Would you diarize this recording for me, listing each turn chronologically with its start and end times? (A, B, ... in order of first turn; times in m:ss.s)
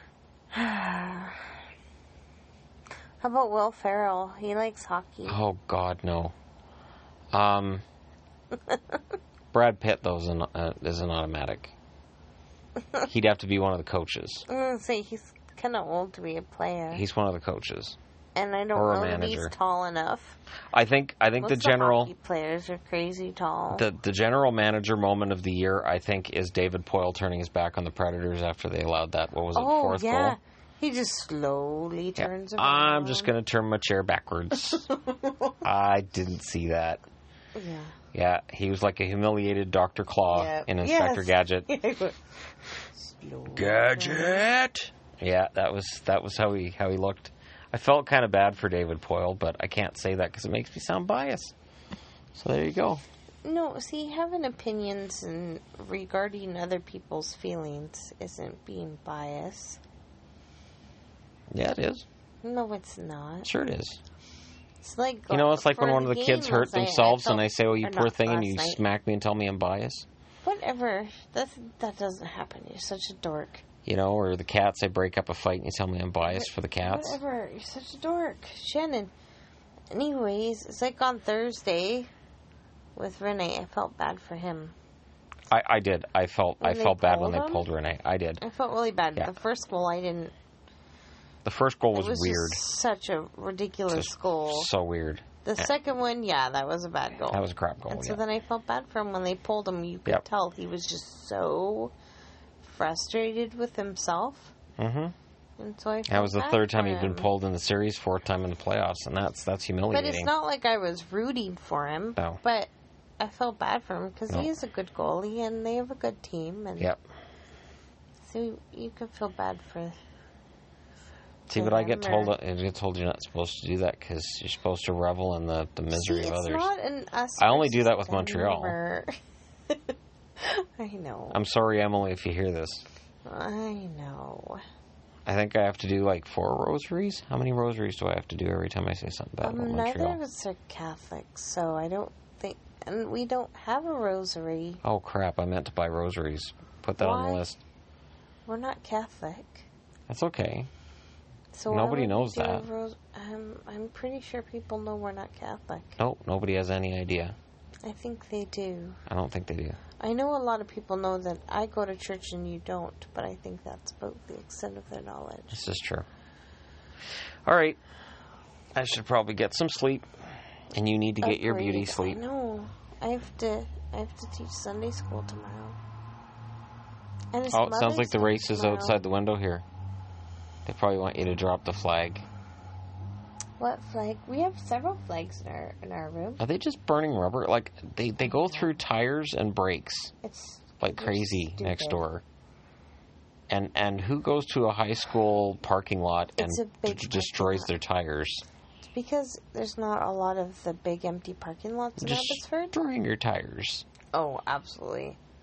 0:00.5-0:01.5 A
0:03.2-0:05.4 A
0:05.3-0:06.3 B
0:07.3-0:07.8 B
0:08.7-0:09.0 A
0:09.5-0:11.7 B
0:13.0-0:14.4 B
0:14.5-0:17.0 A
0:16.9-0:18.0 B
0:18.3-0:20.4 A
0:18.7-0:19.5 B
0:20.7-0:22.1 B
0:21.4-0:23.8 A
0:23.7-0:30.4 B
0:29.5-0:33.3 A
0:32.2-0:34.9 B
0:34.9-0:35.6 A
0:35.6-0:37.0 B
0:37.5-0:37.9 A
0:38.1-0:41.7 B
0:40.3-0:42.2 A
0:43.0-0:44.4 A
0:43.5-0:51.5 B
0:52.3-0:53.0 B
0:53.4-0:59.8 A
1:01.5-1:02.0 B
1:02.4-1:03.5 A
1:03.4-1:04.0 B
1:04.8-1:08.8 A
1:05.3-1:10.0 B
1:10.4-1:13.6 A
1:13.8-1:17.2 B
1:16.2-1:19.1 A
1:19.9-1:22.1 A
1:23.0-1:24.7 A
1:25.5-1:28.4 B
1:26.6-1:27.7 A
1:28.4-1:30.3 A
1:31.4-1:32.6 B
1:31.9-1:34.7 A
1:33.9-1:35.7 B
1:35.4-1:41.9 A
1:37.3-1:38.2 B
1:42.6-1:44.5 A
1:44.8-1:45.1 B
1:45.6-1:47.3 A
1:46.1-1:50.3 B
1:49.9-1:56.9 A
1:58.2-2:00.0 A
2:01.5-2:06.7 B
2:01.5-2:02.3 A
2:05.9-2:09.1 A
2:07.4-2:08.8 B
2:09.7-2:11.4 A
2:11.3-2:12.8 B
2:13.2-2:14.6 A
2:15.2-2:20.2 B
2:19.4-2:24.8 A
2:24.8-2:27.6 B
2:27.0-2:27.5 A
2:28.4-2:29.7 A
2:30.1-2:30.7 B
2:31.5-2:36.0 A
2:31.7-2:32.7 B
2:36.0-2:37.4 B
2:37.8-2:39.0 A
2:39.1-2:39.8 B
2:40.0-2:45.6 A
2:45.5-2:46.0 B
2:47.4-2:47.8 B
2:48.7-2:50.1 B
2:50.7-2:52.2 B
2:51.2-2:55.8 A
2:57.3-2:59.0 A
2:57.5-2:59.6 B
3:00.6-3:02.2 B
3:03.6-3:06.4 A
3:06.4-3:10.1 B
3:10.2-3:12.0 A
3:10.8-3:12.2 B
3:13.5-3:18.4 B
3:16.4-3:17.7 A
3:18.8-3:22.7 A
3:22.0-3:23.8 B
3:24.1-3:25.2 A